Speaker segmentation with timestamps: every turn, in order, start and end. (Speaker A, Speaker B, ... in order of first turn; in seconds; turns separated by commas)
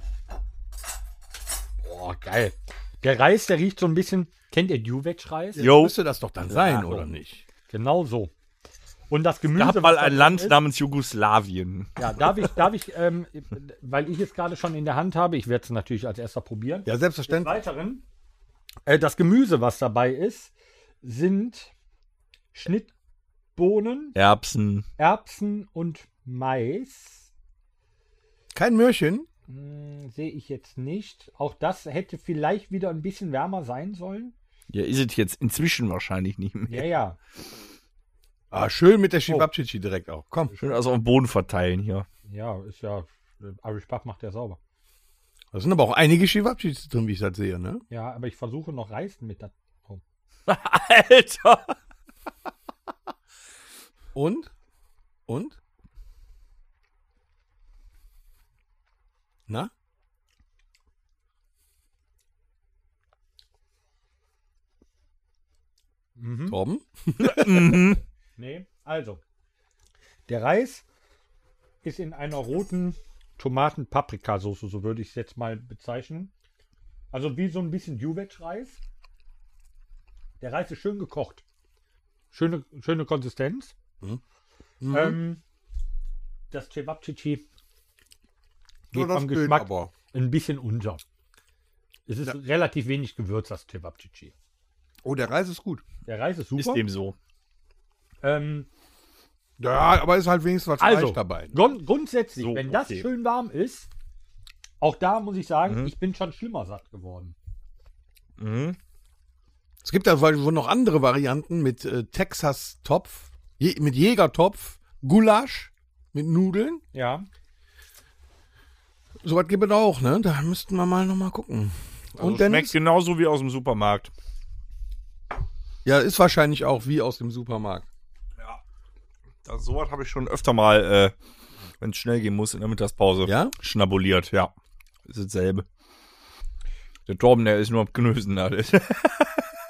Speaker A: 1.8-5.7, Speaker B: 5.5-7.4, Speaker C: 5.6-6.0, Speaker C: 6.5-7.0, Speaker A: 7.7-8.3, Speaker A: 9.1-10.6, Speaker C: 9.6-12.3, Speaker A: 12.0-18.0, Speaker B: 16.9-17.6, Speaker A: 18.9-21.7, Speaker A: 22.5-22.9, Speaker A: 23.6-24.2, Speaker C: 24.1-24.9, Speaker A: 25.0-27.3, Speaker B: 28.5-29.3, Speaker A: 29.5-34.3, Speaker C: 34.7-36.9, Speaker A: 36.7-37.2, Speaker B: 38.5-40.5, Speaker C: 40.6-42.1, Speaker A: 42.3-44.6, Speaker B: 45.5-47.8, Speaker A: 47.9-50.0, Speaker C: 50.5-51.8, Speaker B: 54.1-54.5, Speaker B: 55.3-55.6, Speaker A: 66.2-66.6, Speaker B: 66.5-68.0, Speaker C: 67.2-68.0, Speaker A: 68.4-69.2, Speaker A: 70.3-70.8, Speaker A: 71.8-76.3, Speaker A: 77.1-78.8, Speaker A: 80.4-81.4, Speaker A: 82.3-83.7, Speaker B: 84.8-85.2, Speaker A: 84.9-85.4, Speaker A: 86.5-87.5, Speaker B: 88.9-89.9, Speaker A: 88.9-91.0, Speaker A: 92.1-94.3, Speaker B: 95.0-95.8, Speaker A: 96.1-96.8, Speaker C: 96.6-97.2, Speaker A: 98.2-98.7, Speaker B: 99.6-101.6, Speaker A: 100.8-103.9, Speaker C: 102.4-103.0, Speaker A: 104.8-107.3, Speaker C: 108.4-108.8, Speaker B: 109.8-116.8, Speaker A: 116.9-117.3, Speaker B: 119.2-122.8, Speaker C: 122.2-124.1, Speaker B: 125.8-127.9, Speaker C: 129.4-131.1, Speaker C: 131.8-134.5, Speaker B: 133.3-133.5, Speaker C: 135.1-135.7, Speaker C: 137.1-139.5